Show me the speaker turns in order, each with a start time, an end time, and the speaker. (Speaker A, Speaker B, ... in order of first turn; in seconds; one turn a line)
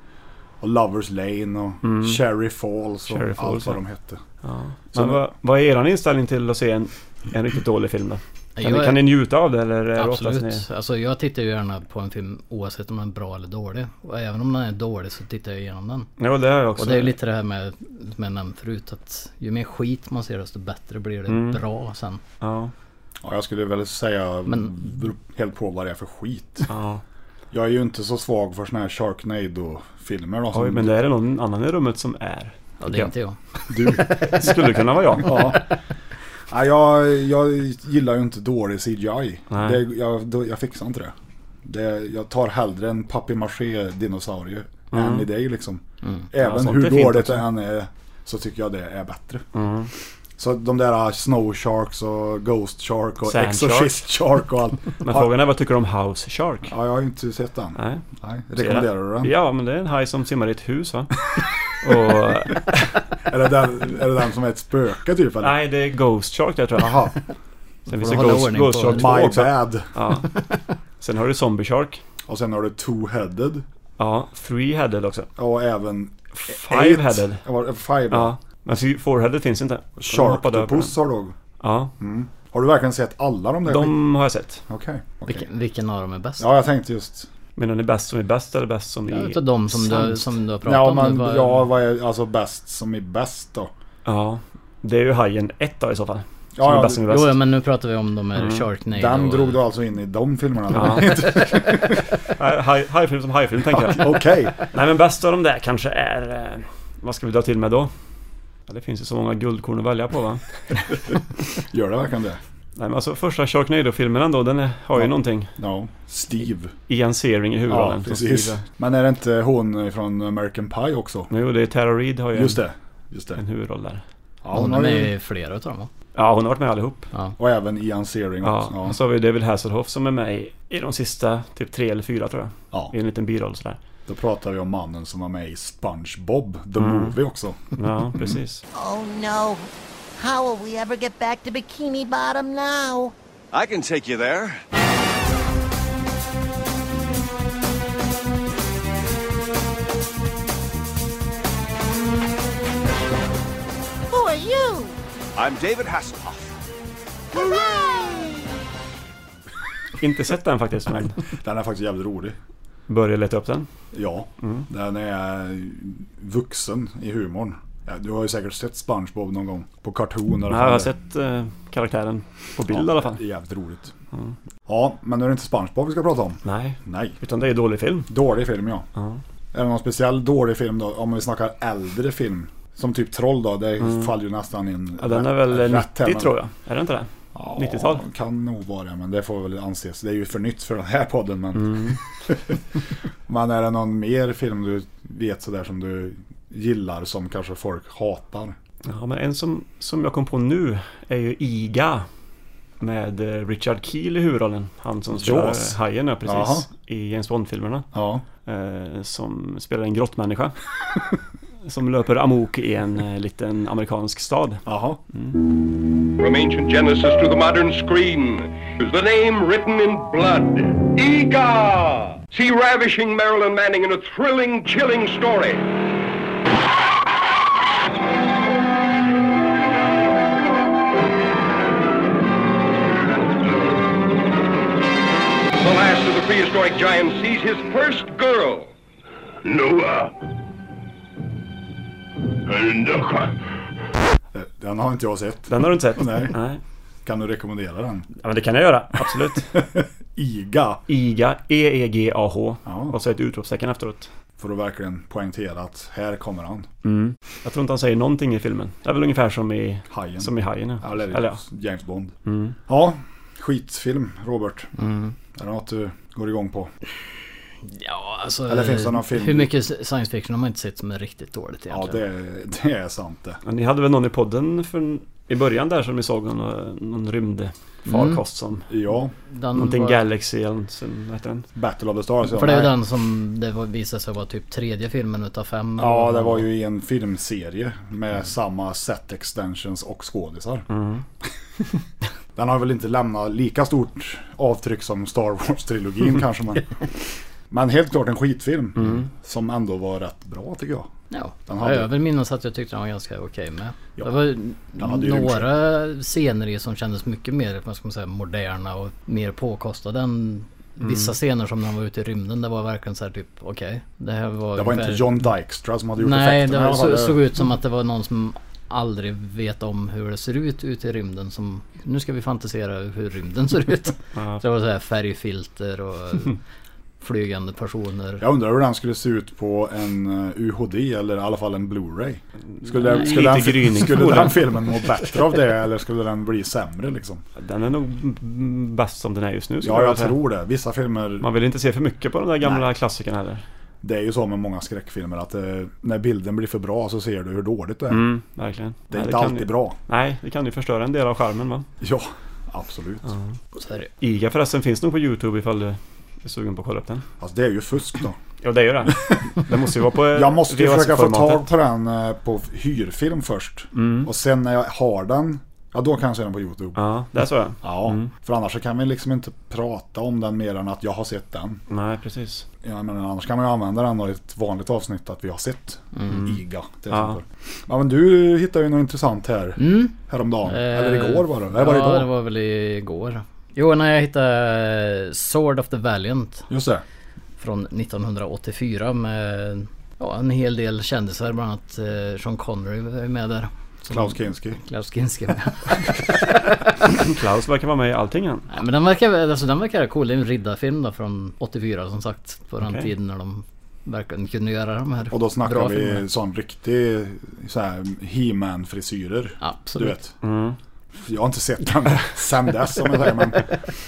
Speaker A: 0.6-4.2
Speaker B: 1.8-2.2
Speaker B: 3.1-3.8
Speaker B: 4.4-10.6
Speaker A: 4.9-5.2
Speaker C: 8.6-9.1
Speaker C: 9.9-16.1
Speaker B: 16.2-17.1
Speaker C: 16.8-22.2
Speaker B: 21.3-21.6
Speaker B: 22.4-22.7
Speaker A: 23.2-26.7
Speaker C: 24.5-24.9
Speaker B: 26.7-27.0
Speaker A: 27.5-30.9
Speaker B: 30.5-33.1
Speaker C: 32.8-34.3
Speaker A: 33.7-34.5
Speaker B: 34.1-35.6
Speaker A: 35.1-35.6
Speaker A: 36.5-41.1
Speaker B: 39.5-39.8
Speaker A: 41.6-49.4
Speaker B: 44.9-45.3
Speaker B: 46.4-47.4
Speaker B: 49.5-49.9
Speaker A: 50.4-55.3
Speaker B: 53.2-54.0
Speaker B: 55.0-56.7
Speaker A: 56.7-59.3
Speaker B: 57.8-58.0
Speaker B: 58.6-62.9
Speaker A: 63.2-65.6
Speaker B: 65.4-67.1
Speaker A: 66.8-67.1
Speaker C: 67.9-69.2
Speaker B: 67.9-70.4
Speaker A: 68.9-69.9
Speaker B: 71.0-72.0
Speaker A: 72.3-73.6
Speaker B: 74.0-75.3
Speaker A: 75.4-78.3
Speaker B: 76.3-77.4
Speaker B: 78.1-80.9
Speaker A: 80.0-81.3
Speaker B: 81.6-81.9
Speaker A: 82.0-84.0
Speaker B: 83.7-84.6
Speaker A: 84.7-85.5
Speaker C: 85.2-86.5
Speaker A: 86.4-87.3
Speaker B: 87.5-89.4
Speaker C: 89.1-91.7
Speaker A: 90.6-93.7
Speaker B: 94.0-97.4
Speaker A: 96.5-97.1
Speaker C: 97.0-99.6
Speaker B: 98.3-98.7
Speaker A: 98.9-102.2
Speaker B: 100.7-101.6
Speaker B: 102.2-107.9
Speaker A: 103.7-104.7
Speaker B: 108.7-110.8
Speaker A: 111.6-112.4
Speaker B: 112.8-115.5
Speaker A: 115.0-116.8
Speaker B: 116.9-118.6
Speaker A: 117.7-121.3
Speaker B: 121.3-122.6
Speaker A: 122.3-123.4
Speaker B: 123.4-124.0
Speaker A: 124.4-125.1
Speaker C: 124.5-125.9
Speaker B: 126.1-127.1
Speaker A: 127.4-129.0
Speaker B: 128.4-133.8
Speaker A: 134.1-137.6
Speaker B: 136.8-137.2
Speaker B: 137.8-138.6
Speaker D: 138.7-143.1
Speaker E: 143.5-144.6
Speaker D: 154.1-154.9
Speaker E: 155.3-156.4
Speaker D: 157.3-158.4
Speaker B: 160.0-161.3
Speaker A: 161.3-162.4
Speaker B: 162.9-163.7
Speaker A: 163.9-170.9
Speaker B: 170.5-173.2
Speaker A: 172.7-173.9
Speaker A: 174.7-177.2
Speaker B: 176.4-178.1
Speaker A: 178.1-178.8
Speaker A: 179.5-186.3
Speaker B: 183.8-184.1
Speaker B: 185.0-188.0
Speaker A: 187.3-192.6
Speaker B: 191.6-192.0
Speaker A: 193.3-198.6
Speaker B: 198.8-202.1
Speaker B: 202.8-207.9
Speaker A: 205.1-206.7
Speaker A: 207.9-208.2
Speaker B: 208.4-210.6
Speaker B: 211.6-215.4
Speaker A: 214.7-215.0
Speaker F: 216.2-225.7
Speaker F: 235.6-238.7
Speaker F: 239.4-240.1
Speaker F: 242.5-243.3
Speaker A: 244.3-246.3
Speaker B: 245.5-246.6
Speaker A: 247.0-248.1
Speaker B: 248.2-249.6
Speaker A: 249.5-250.8
Speaker B: 250.9-254.1
Speaker A: 252.7-253.0
Speaker A: 254.4-256.7
Speaker B: 256.8-261.4
Speaker A: 259.9-262.1
Speaker B: 262.2-262.6
Speaker A: 262.7-264.7
Speaker C: 264.8-265.1
Speaker A: 265.4-266.7
Speaker C: 267.6-272.0
Speaker A: 268.5-269.5
Speaker A: 271.7-273.4
Speaker B: 273.4-278.7
Speaker C: 277.9-278.2
Speaker A: 278.7-279.1
Speaker C: 279.3-280.0
Speaker B: 279.5-281.5
Speaker A: 281.5-282.7
Speaker C: 282.2-286.5
Speaker A: 285.8-290.6
Speaker B: 290.7-291.0
Speaker A: 292.4-297.0
Speaker A: 297.5-300.9
Speaker C: 301.1-315.3
Speaker A: 301.5-301.9
Speaker A: 304.8-305.5
Speaker B: 310.8-311.1
Speaker A: 314.5-317.2
Speaker C: 316.0-326.4
Speaker B: 324.1-324.4
Speaker C: 327.0-328.2
Speaker A: 328.2-337.2
Speaker B: 332.6-334.6
Speaker B: 337.4-340.2
Speaker A: 339.6-341.3
Speaker B: 341.2-343.4
Speaker A: 342.4-342.7
Speaker A: 343.8-348.1
Speaker B: 347.9-351.7
Speaker A: 348.9-349.8
Speaker A: 351.8-353.1
Speaker B: 353.1-353.3
Speaker C: 353.5-353.9
Speaker B: 354.0-357.0
Speaker A: 357.2-358.2
Speaker B: 358.4-361.5
Speaker A: 358.9-359.2
Speaker A: 360.1-366.8
Speaker B: 363.7-364.1
Speaker B: 366.8-368.1
Speaker A: 367.6-371.6
Speaker B: 371.7-372.4
Speaker A: 372.6-382.1
Speaker C: 375.9-376.2
Speaker B: 376.9-377.2
Speaker C: 379.6-386.5
Speaker A: 386.5-386.8
Speaker C: 387.4-396.6
Speaker A: 393.9-394.6
Speaker B: 396.9-398.5
Speaker C: 398.5-406.1
Speaker B: 402.6-402.9
Speaker A: 405.1-410.1
Speaker C: 409.4-410.0
Speaker B: 410.2-410.6
Speaker A: 410.9-413.6